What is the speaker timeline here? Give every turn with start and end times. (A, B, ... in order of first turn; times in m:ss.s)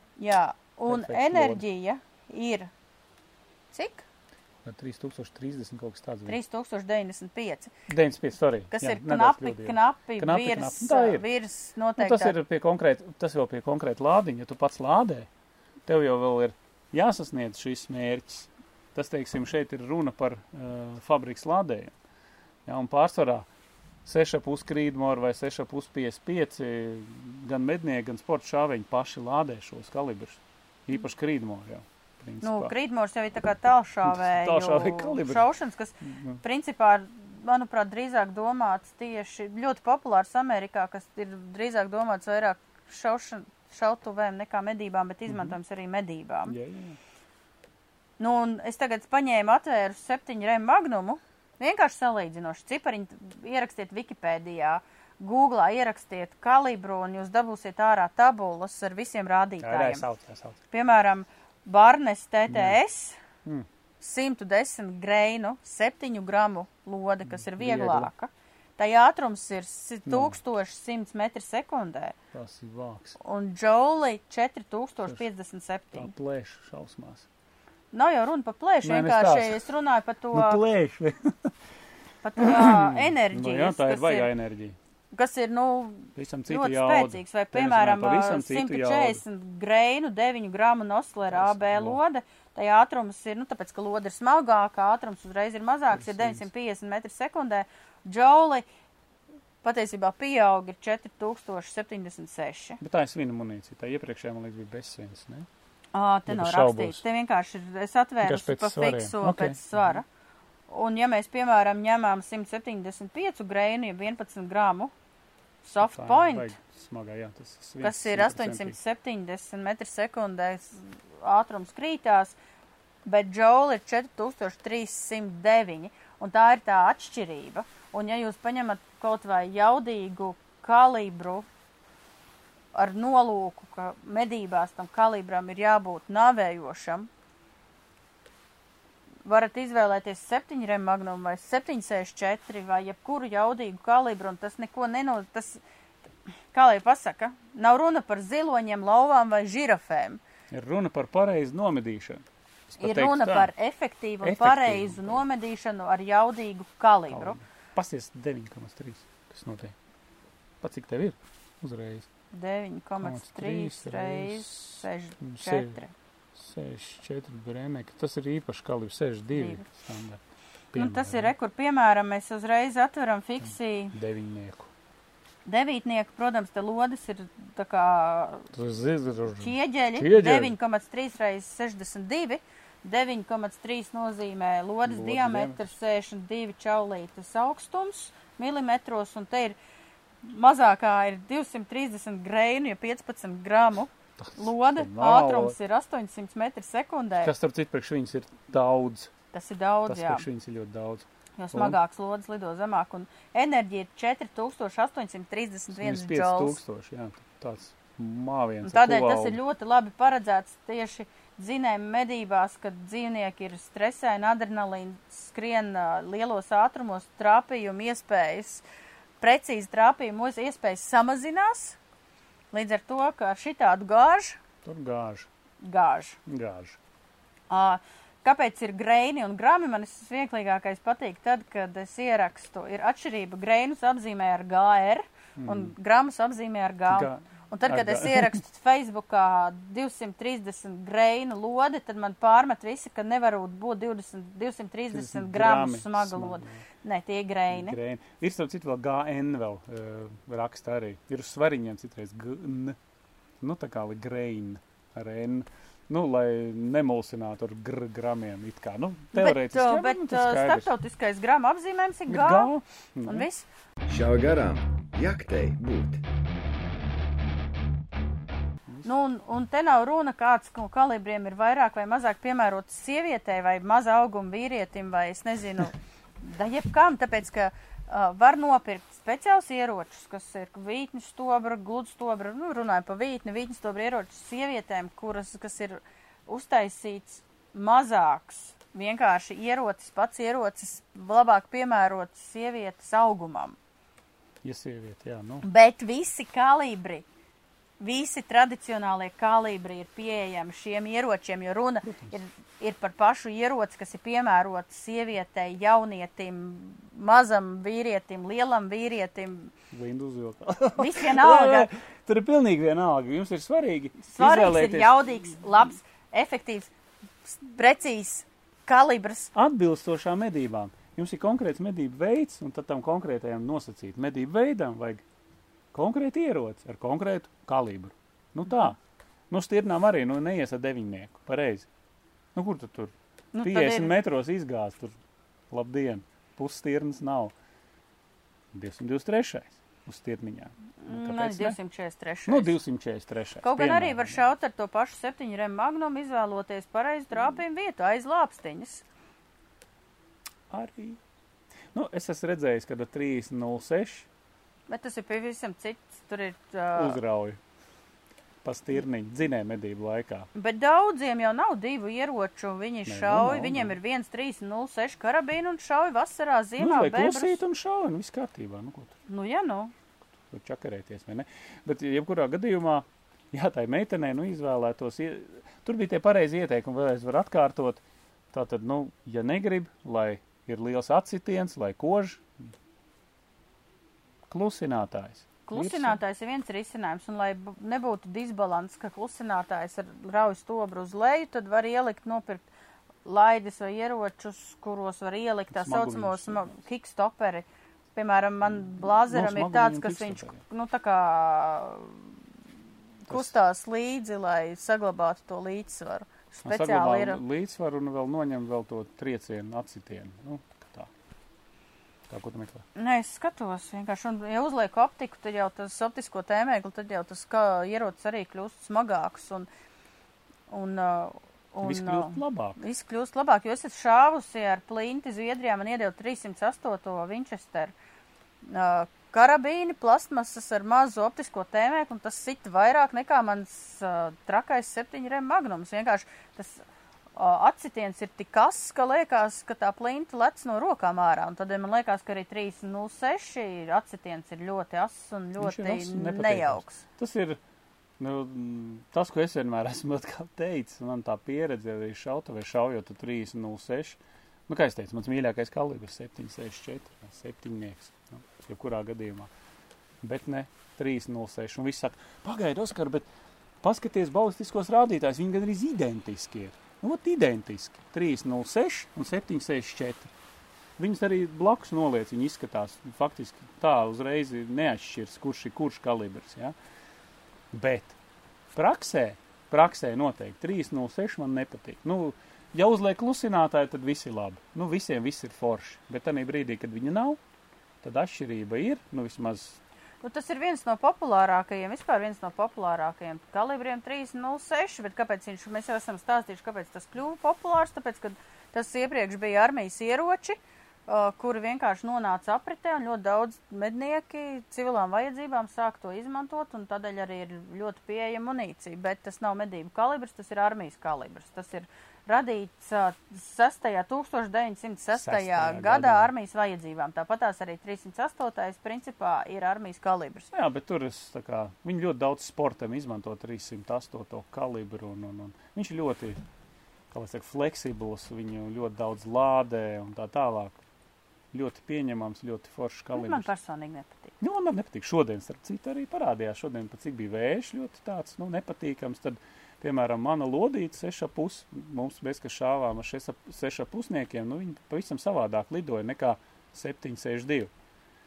0:00.2-0:02.7 A
0:00.9-0:01.6 B
0:03.7-0:04.0 A
0:04.6-0:06.4 B
0:06.2-0:07.7 A
0:07.9-0:11.2 B
0:08.7-0:12.4 A
0:12.0-0:15.3 B
0:15.8-0:21.9 B
0:22.6-0:23.5 B
0:24.0-0:32.7 B
0:32.4-0:46.5 A
0:34.0-0:35.5 B
0:36.0-0:36.4 B
0:45.3-0:45.6 B
0:46.4-0:47.0 B
0:48.2-1:00.0 A
0:59.6-1:00.6 B
1:00.7-1:03.2 A
1:02.5-1:02.8 B
1:04.0-1:12.2 A
1:07.2-1:08.1 B
1:10.1-1:10.4 B
1:12.3-1:13.2 B
1:13.2-1:16.1 A
1:15.9-1:17.3 B
1:17.9-1:20.6 A
1:18.8-1:19.6 B
1:20.3-1:21.5 B
1:22.2-1:24.3 A
1:22.4-1:24.8 B
1:25.1-1:38.6 A
1:26.2-1:29.2 B
1:31.3-1:32.0 B
1:35.9-1:36.5 B
1:39.6-1:42.8 A
1:42.8-1:45.5 B
1:45.9-1:50.0 A
1:46.3-1:47.0 B
1:48.2-1:50.0 B
1:50.7-1:54.9 A
1:55.6-1:56.5 A
1:55.8-1:58.8 B
1:57.8-2:02.4 A
2:03.0-2:11.4 A
2:12.7-2:17.1 A
2:19.2-2:25.6 A
2:26.5-2:30.2 A
2:30.5-2:33.5 B
2:32.8-2:37.4 A
2:34.2-2:35.2 B
2:37.1-2:39.8 B
2:40.6-2:42.1 B
2:42.3-2:45.9 A
2:43.0-2:45.8 B
2:46.4-2:50.2 B
2:49.3-2:49.6 A
2:50.7-2:51.3 B
2:50.8-2:54.0 A
2:53.9-2:54.7 B
2:55.4-2:58.5 A
2:58.5-3:00.5 B
2:59.4-3:09.6 A
3:04.8-3:05.6 B
3:10.2-3:17.3 A
3:14.2-3:15.6 B
3:17.2-3:19.1 B
3:19.3-3:20.2 A
3:19.9-3:21.8 B
3:21.4-3:26.6 A
3:25.7-3:29.4 B
3:28.6-3:38.6 A
3:39.2-3:41.8 A
3:42.5-3:44.4 A
3:44.6-3:45.3 B
3:45.6-3:46.2 A
3:46.3-3:46.8 B
3:47.5-4:07.8 A
3:55.4-3:55.7 B
3:56.9-3:58.4 B
4:04.9-4:06.6 B
4:07.5-4:12.8 B
4:13.4-4:20.7 B
4:19.1-4:22.5 A
4:22.1-4:23.3 B
4:23.0-4:23.4 A
4:23.9-4:26.0 C
4:28.8-4:53.6 A
4:54.4-4:55.5 B
4:55.4-4:57.0 A
4:57.8-5:09.5 A
5:01.8-5:02.1 B
5:09.7-5:15.2 B
5:10.8-5:11.7 A
5:14.0-5:16.7 A
5:17.2-5:19.3 A
5:19.3-5:25.0 B
5:25.7-5:28.8 B
5:29.3-5:31.7 B
5:32.3-5:35.0 B
5:33.3-5:33.9 A
5:35.5-5:37.3 B
5:38.5-5:41.6 B
5:40.8-5:42.6 A
5:42.3-5:44.2 B
5:43.4-5:48.8 A
5:50.5-5:51.0 B
5:51.7-5:54.1 B
5:54.7-5:57.0 A
5:56.8-5:57.4 B
5:58.4-6:00.3 B
6:00.3-6:07.4 A
6:02.8-6:03.8 B
6:06.6-6:09.0 B
6:09.1-6:09.7 A
6:10.3-6:22.3 B
6:24.3-6:26.0 B
6:25.5-6:32.4 A
6:33.0-6:42.1 A
6:35.5-6:36.5 B
6:38.5-6:40.4 B
6:43.0-6:47.2 A
6:43.1-6:43.3 B
6:46.4-6:50.9 B
6:52.1-6:52.6 B
6:52.8-6:59.5 A
7:00.5-7:07.7 A
7:01.6-7:02.6 B
7:08.4-7:16.6 A
7:17.2-7:26.8 A
7:25.4-7:27.4 B
7:28.0-7:39.3 B
7:40.0-7:43.1 B
7:43.6-7:50.1 B
7:50.8-7:56.5 B
7:57.5-7:58.0 B
7:58.5-8:07.2 B
8:07.8-8:09.6 B
8:10.0-8:40.3 A
8:34.9-8:36.1 B
8:40.3-8:46.2 B
8:46.9-8:50.6 B
8:51.3-8:53.3 B
8:52.9-8:54.1 A
8:54.2-9:07.5 B